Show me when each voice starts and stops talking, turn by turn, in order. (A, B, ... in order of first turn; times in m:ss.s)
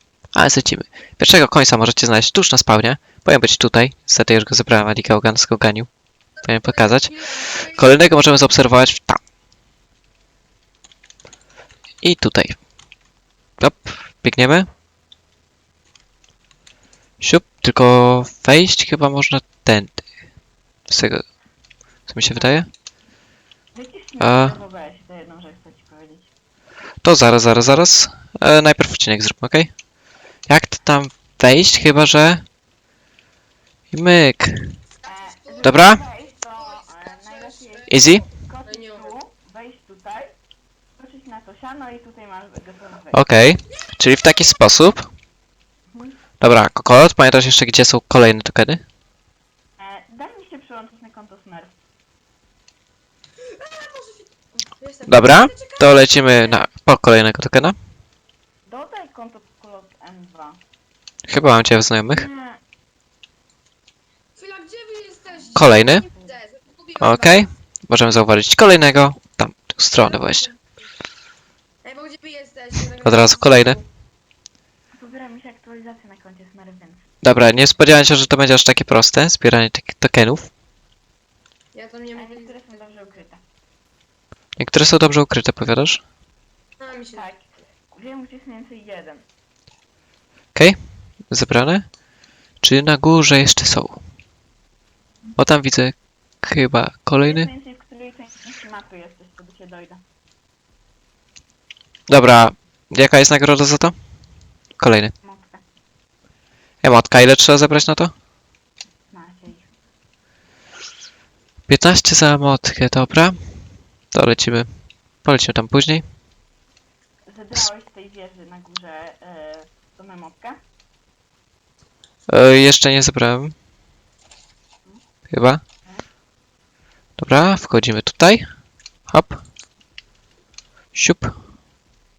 0:00.3-0:05.9 A
0:06.4-0:08.0 B
0:06.4-0:07.1 A
0:07.7-0:09.2 A
0:12.0-0:12.6 A
0:13.6-0:14.7 A
0:17.2-0:20.0 A
0:20.9-0:21.2 A
0:22.1-0:22.7 A
0:23.7-0:26.3 C
0:24.2-0:24.6 A
0:27.0-0:29.7 A
0:30.5-0:32.4 A
0:33.9-0:34.8 A
0:35.0-0:39.1 B
0:35.0-0:40.3 C
0:35.6-0:36.0 A
0:37.9-0:38.2 A
0:41.0-0:43.2 C
0:43.1-0:45.1 A
0:43.8-0:44.6 B
0:45.9-0:46.2 C
0:46.4-0:48.8 A
0:49.8-0:51.8 C
0:53.4-0:56.7 B
0:55.1-0:57.8 A
0:58.7-1:00.6 C
1:01.3-1:02.2 A
1:02.1-1:02.6 C
1:04.4-1:07.5 B
1:05.3-1:06.3 C
1:05.5-1:06.1 A
1:07.0-1:10.5 A
1:09.9-1:10.6 B
1:11.8-1:13.8 B
1:13.0-1:13.8 A
1:14.9-1:17.1 C
1:17.2-1:20.5 A
1:21.7-1:23.2 B
1:22.1-1:23.4 C
1:24.6-1:26.0 A
1:26.8-1:27.3 B
1:26.9-1:29.3 C
1:31.3-1:31.9 A
1:32.6-1:34.0 A
1:35.4-1:37.5 A
1:37.2-1:40.0 C
1:42.1-1:43.9 A
1:44.8-1:45.1 A
1:45.2-1:45.6 C
1:46.8-1:48.1 A
1:49.1-1:49.7 C
1:51.7-1:53.4 A
1:54.1-1:54.7 A
1:55.2-1:56.0 A
1:57.3-2:00.6 C
2:02.3-2:03.5 A
2:05.3-2:05.6 A
2:07.2-2:08.5 A
2:09.1-2:09.4 A
2:10.9-2:11.3 A